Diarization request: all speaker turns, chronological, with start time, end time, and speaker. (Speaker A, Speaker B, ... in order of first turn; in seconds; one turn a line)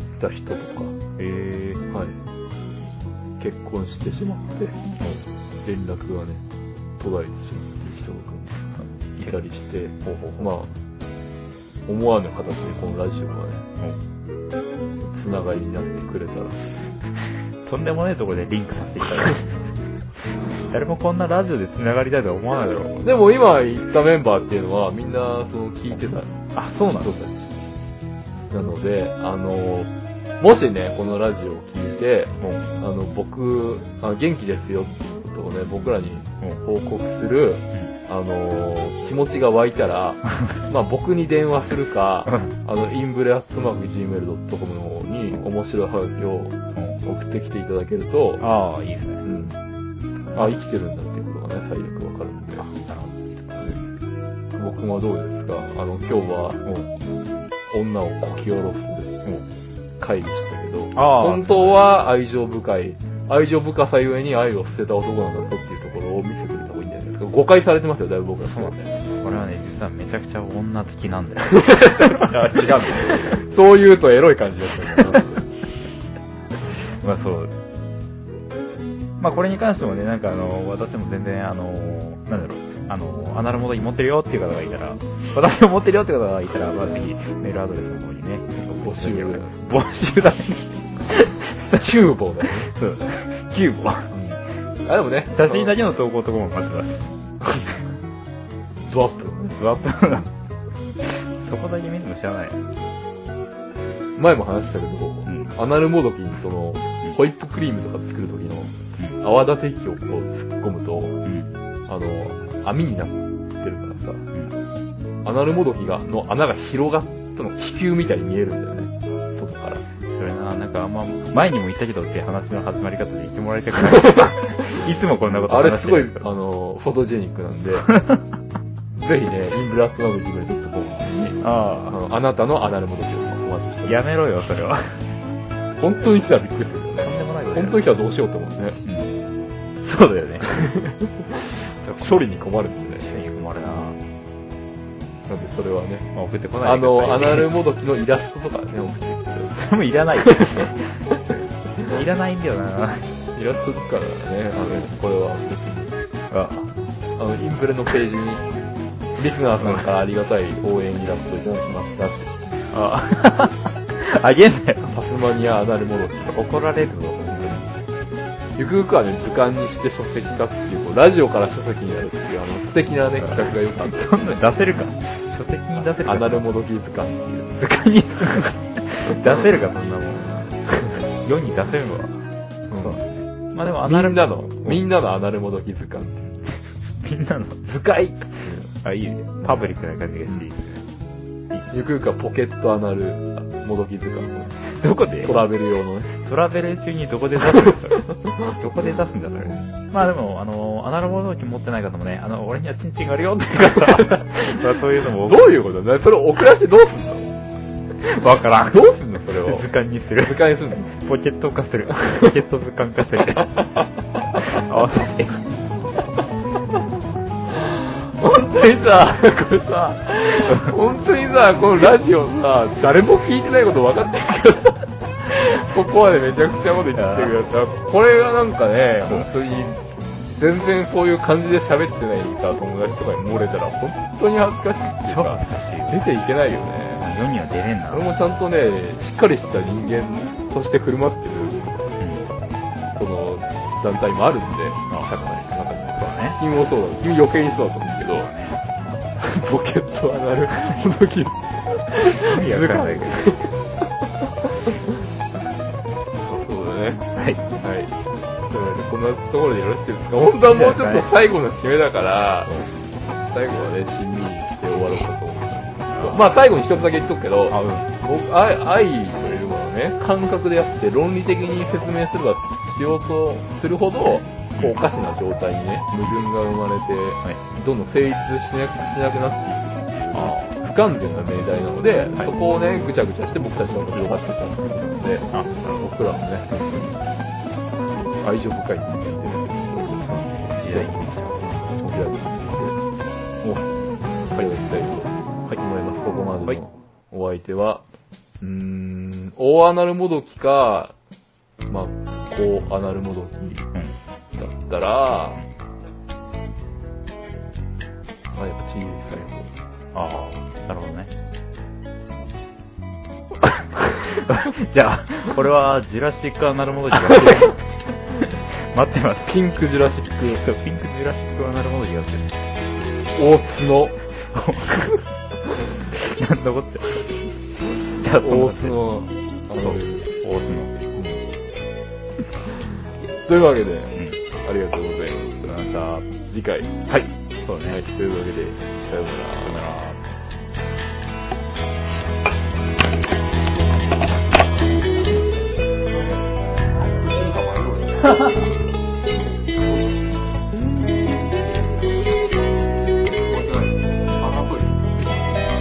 Speaker A: 0.2-1.0
Speaker B: 1.2-1.8
Speaker A: 1.9-2.2
Speaker A: 3.4-4.8
Speaker A: 5.6-6.4
Speaker A: 7.0-10.7
Speaker B: 10.0-10.5
Speaker A: 11.9-13.6
Speaker A: 15.0-16.9
Speaker B: 17.6-19.7
Speaker B: 20.7-23.1
Speaker A: 23.0-26.4
Speaker B: 25.9-27.1
Speaker A: 27.0-27.5
Speaker A: 28.5-48.5
Speaker B: 32.4-32.7
Speaker B: 48.4-49.2
Speaker A: 49.2-49.6
Speaker A: 50.3-52.7
Speaker B: 52.6-53.8
Speaker A: 54.5-56.6
Speaker A: 57.7-59.3
Speaker A: 60.0-69.1
Speaker B: 60.9-61.9
Speaker B: 68.4-72.7
Speaker A: 71.5-75.5
Speaker B: 74.9-75.3
Speaker B: 77.0-77.5
Speaker B: 79.2-91.9
Speaker A: 88.8-89.6
Speaker A: 91.7-92.7
Speaker B: 92.4-94.1
Speaker A: 94.1-95.8
Speaker B: 95.3-97.1
Speaker A: 98.8-99.7
Speaker B: 99.6-100.3
Speaker B: 101.0-102.6
Speaker A: 104.2-111.2
Speaker B: 105.2-105.5
Speaker B: 111.2-111.5
Speaker A: 111.9-114.2
Speaker A: 115.2-119.8
Speaker B: 120.1-126.2
Speaker A: 123.8-124.7
Speaker A: 125.5-127.9
Speaker B: 127.9-128.2
Speaker A: 128.9-134.0
Speaker B: 131.4-132.0
Speaker B: 133.8-135.0
Speaker A: 135.8-138.8
Speaker B: 137.0-137.8
Speaker B: 138.8-139.2
Speaker B: 139.8-140.5
Speaker A: 140.5-143.1
Speaker B: 141.8-142.2
Speaker B: 143.0-144.0
Speaker A: 145.3-146.1
Speaker B: 146.1-147.5
Speaker A: 146.6-149.6
Speaker B: 149.6-153.1
Speaker A: 150.2-150.7
Speaker A: 153.3-155.9
Speaker B: 156.3-156.7
Speaker A: 157.2-158.5
Speaker A: 159.2-162.3
Speaker B: 159.6-159.9
Speaker B: 162.7-164.9
Speaker A: 164.8-166.5
Speaker B: 166.3-167.7
Speaker A: 168.6-174.4
Speaker B: 173.2-176.5
Speaker A: 175.8-177.5
Speaker B: 177.5-182.2
Speaker A: 179.1-179.5
Speaker A: 180.1-181.0
Speaker A: 182.7-183.0
Speaker B: 182.8-184.8
Speaker A: 183.8-186.4
Speaker B: 186.9-188.2
Speaker A: 188.3-188.7
Speaker B: 188.8-190.8
Speaker A: 189.4-189.7
Speaker A: 191.7-194.6
Speaker B: 194.7-195.4
Speaker A: 195.2-196.1
Speaker B: 196.1-205.5
Speaker A: 197.6-198.6
Speaker A: 203.7-204.3
Speaker A: 205.2-207.3
Speaker B: 208.0-213.8
Speaker A: 208.6-209.7
Speaker A: 210.2-210.9
Speaker A: 212.0-212.3
Speaker A: 213.6-213.8
Speaker B: 214.3-215.4
Speaker A: 217.6-229.8
Speaker B: 226.9-227.4
Speaker A: 230.3-237.0
Speaker B: 235.1-236.0
Speaker B: 237.0-238.1
Speaker A: 237.9-241.8
Speaker B: 242.0-242.2
Speaker A: 242.9-248.3
Speaker B: 245.9-246.4
Speaker B: 247.9-248.8
Speaker A: 249.2-254.9
Speaker B: 252.2-253.4
Speaker A: 256.2-257.1
Speaker B: 257.1-257.4
Speaker A: 257.6-257.9
Speaker A: 258.5-262.5
Speaker B: 260.5-261.1
Speaker A: 263.1-287.1
Speaker B: 265.9-266.2
Speaker B: 267.5-267.9
Speaker B: 280.1-280.6
Speaker B: 285.3-285.9
Speaker A: 288.2-292.8
Speaker B: 290.5-291.6
Speaker A: 294.3-297.9
Speaker A: 298.4-300.9
Speaker A: 301.7-303.7
Speaker A: 304.3-305.4
Speaker A: 308.4-309.6
Speaker B: 309.9-311.1
Speaker B: 313.8-317.6
Speaker A: 317.1-317.5
Speaker B: 318.2-319.4
Speaker A: 319.2-320.4
Speaker B: 320.2-322.3
Speaker A: 323.1-324.0
Speaker B: 324.3-324.9
Speaker B: 325.9-327.0
Speaker B: 328.0-328.8
Speaker A: 328.0-330.1
Speaker B: 329.6-330.7
Speaker A: 330.9-331.2
Speaker A: 333.3-335.4
Speaker B: 335.4-336.1
Speaker A: 336.2-336.9
Speaker B: 336.9-337.8
Speaker A: 337.7-339.7
Speaker B: 339.4-340.0
Speaker A: 347.0-348.2
Speaker A: 353.3-354.9